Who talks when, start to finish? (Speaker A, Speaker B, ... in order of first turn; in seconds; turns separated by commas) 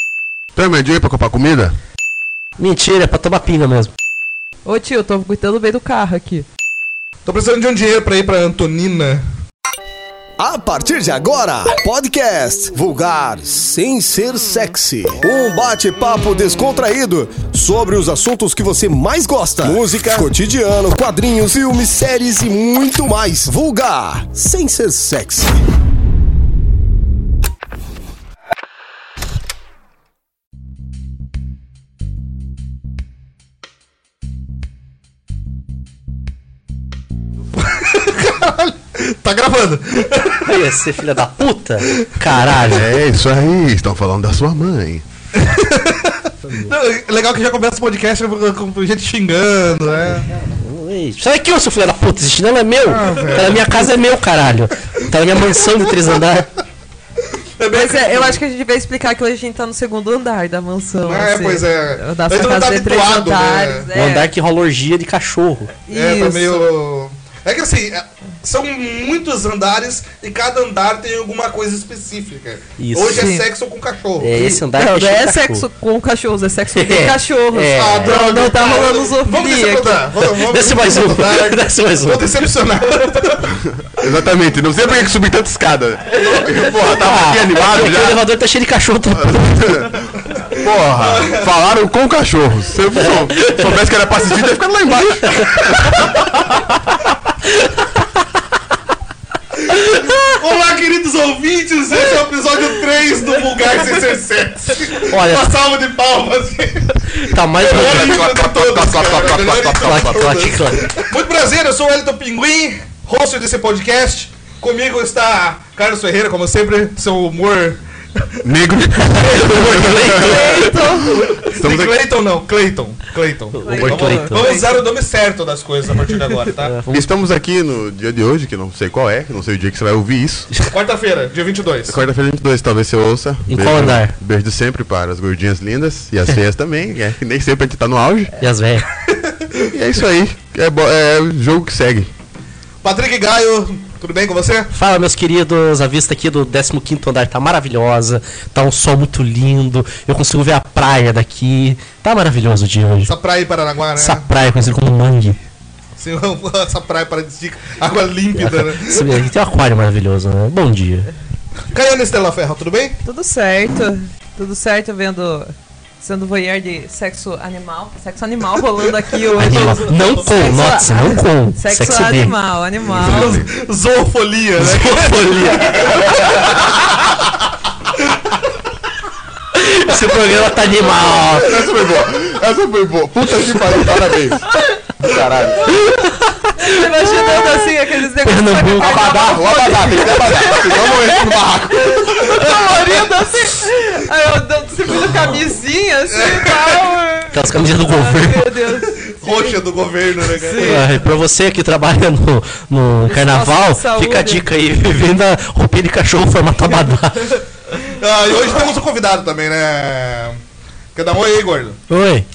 Speaker A: 0.5-1.7, Speaker B: 2.6-3.9, Speaker C: 4.7-6.5, Speaker D: 7.2-9.2, Speaker E: 10.4-25.5, Speaker D: 37.6-40.5, Speaker B: 40.5-42.9, Speaker D: 41.9-42.2, Speaker A: 42.3-45.0, Speaker D: 45.3-50.3, Speaker B: 50.6-56.5, Speaker D: 52.9-53.7, Speaker D: 57.6-58.4, Speaker C: 57.7-64.3, Speaker D: 61.0-63.9, Speaker B: 63.9-65.7, Speaker C: 65.9-66.7, Speaker D: 65.9-74.4, Speaker B: 72.8-73.3, Speaker C: 73.1-73.5, Speaker B: 74.2-75.7, Speaker C: 74.3-80.1, Speaker B: 76.7-78.2, Speaker D: 77.7-83.5, Speaker B: 80.2-82.3, Speaker A: 83.4-88.2, Speaker B: 86.8-89.9, Speaker A: 89.1-96.0, Speaker D: 90.3-91.5, Speaker B: 93.0-93.8, Speaker B: 95.3-96.2, Speaker D: 99.5-118.3, Speaker B: 105.1-105.5, Speaker B: 107.2-108.2, Speaker A: 107.6-110.6, Speaker B: 109.8-110.9, Speaker A: 118.4-120.9, Speaker B: 119.0-120.8, Speaker D: 119.2-126.7, Speaker C: 120.0-121.2, Speaker A: 121.4-122.0, Speaker B: 123.5-124.5, Speaker C: 123.6-124.8, Speaker B: 126.6-127.1, Speaker A: 126.9-130.5, Speaker D: 130.7-131.9, Speaker A: 131.9-138.3, Speaker B: 133.5-134.1, Speaker B: 138.4-138.9, Speaker D: 139.1-139.7, Speaker A: 139.7-142.1, Speaker D: 142.8-144.7, Speaker B: 144.7-153.1, Speaker D: 153.1-154.3, Speaker B: 154.0-155.4, Speaker D: 156.0-159.2, Speaker B: 158.4-161.1, Speaker D: 161.7-162.9, Speaker C: 163.0-173.4, Speaker B: 169.4-172.3, Speaker D: 169.4-170.8, Speaker A: 172.8-173.5, Speaker D: 173.0-176.9, Speaker B: 174.6-176.5, Speaker B: 179.5-181.6, Speaker A: 180.8-184.5, Speaker A: 185.0-185.8, Speaker B: 185.7-187.7, Speaker C: 186.6-199.6, Speaker B: 188.2-189.9, Speaker A: 188.8-192.2, Speaker D: 192.2-193.0, Speaker D: 196.1-196.8, Speaker B: 197.3-198.5, Speaker D: 198.9-200.8, Speaker C: 200.2-201.0, Speaker B: 200.6-207.4, Speaker C: 203.1-204.4, Speaker D: 207.7-210.4, Speaker D: 210.9-211.8, Speaker B: 211.9-212.3